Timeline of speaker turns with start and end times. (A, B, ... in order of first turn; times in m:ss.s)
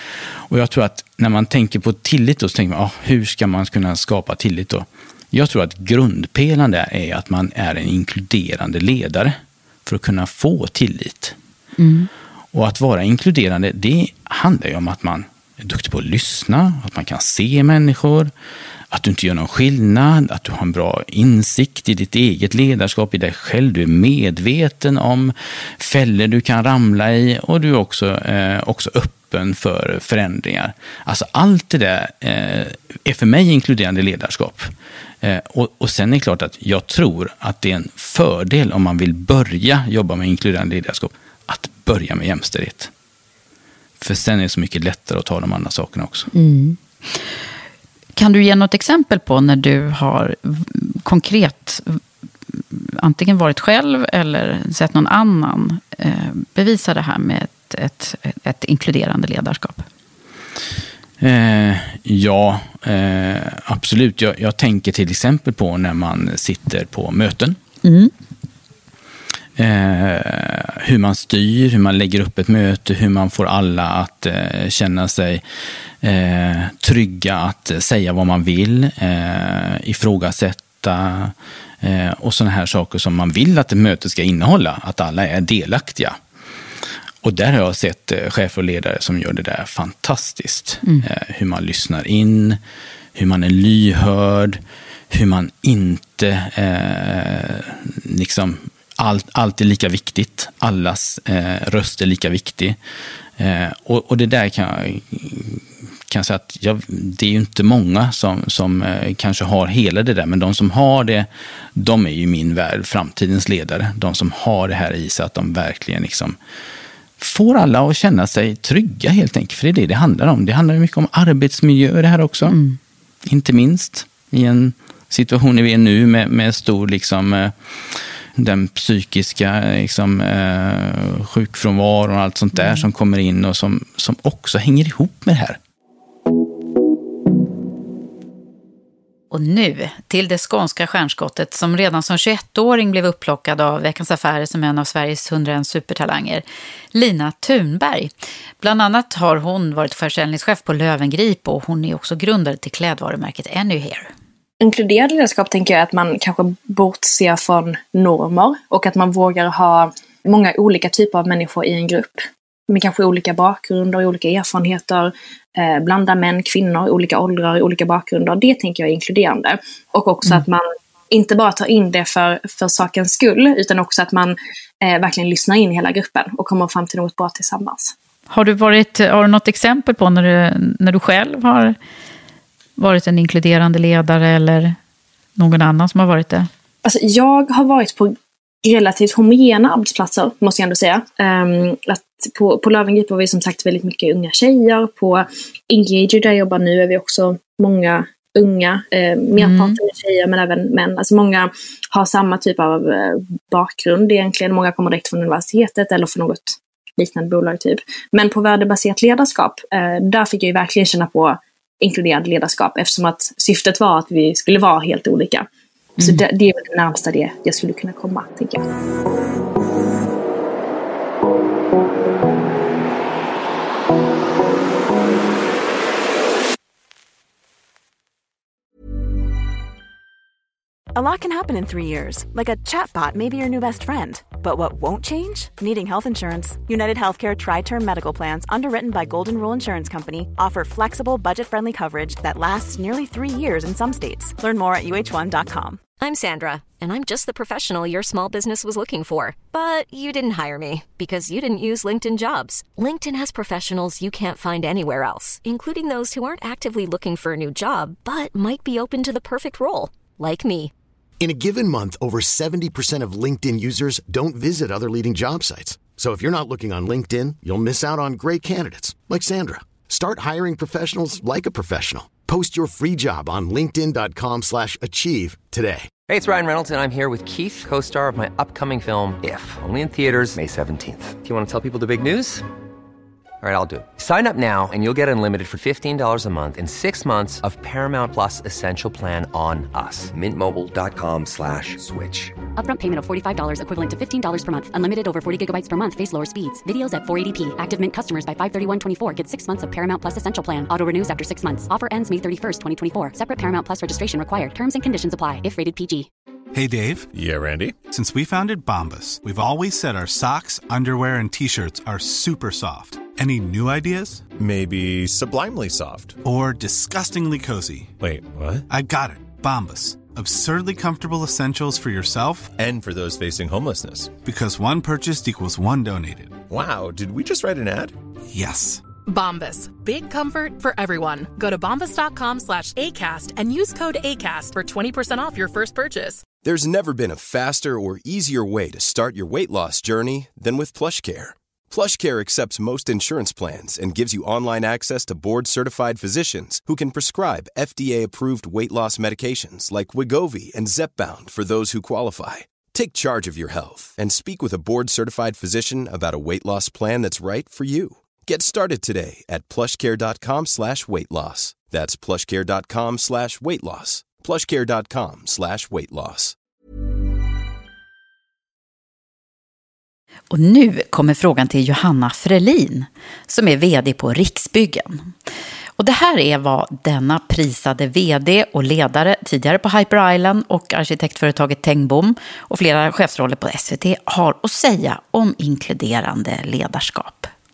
0:00.5-0:11.4 A
0:11.8-0:12.1 B
0:12.5-0:18.3 A
0:18.9-0:34.7 A
0:35.2-0:42.9 A
0:44.0-0:46.3 A
0:46.3-0:47.3 B
0:48.2-0:52.0 B
0:52.5-0:59.9 B
1:01.2-1:07.6 A
1:07.8-1:08.1 B
1:09.6-1:15.4 A
1:16.0-1:26.2 A
1:27.2-1:32.6 A
1:33.2-1:42.8 A
1:43.4-1:56.4 A
1:57.2-2:02.6 A
2:02.5-2:02.8 B
2:03.2-2:07.6 A
2:08.4-2:15.6 A
2:12.6-2:12.9 B
2:19.3-2:34.1 B
2:34.6-2:57.9 C
2:58.3-3:01.8 B
3:02.8-3:04.8 B
3:05.4-3:06.5 B
3:06.8-3:35.5 C
3:19.4-3:19.8 B
3:36.0-3:38.6 C
3:50.9-4:05.8 D
4:06.0-4:20.7 E
4:21.2-4:35.9 F
4:36.1-4:42.4 G
4:43.4-4:52.4 G
4:52.6-5:06.1 H
5:06.5-5:07.1 I
5:07.1-5:07.8 J
5:07.9-5:14.2 I
5:14.4-5:16.2 J
5:16.2-5:17.9 I
5:18.0-5:18.6 J
5:18.7-5:22.5 I
5:22.6-5:24.2 J
5:24.3-5:26.4 I
5:26.5-5:28.0 J
5:28.3-5:28.8 I
5:29.0-5:36.3 K
5:36.4-6:06.4 L
6:10.3-6:15.1 B
6:15.8-6:27.3 B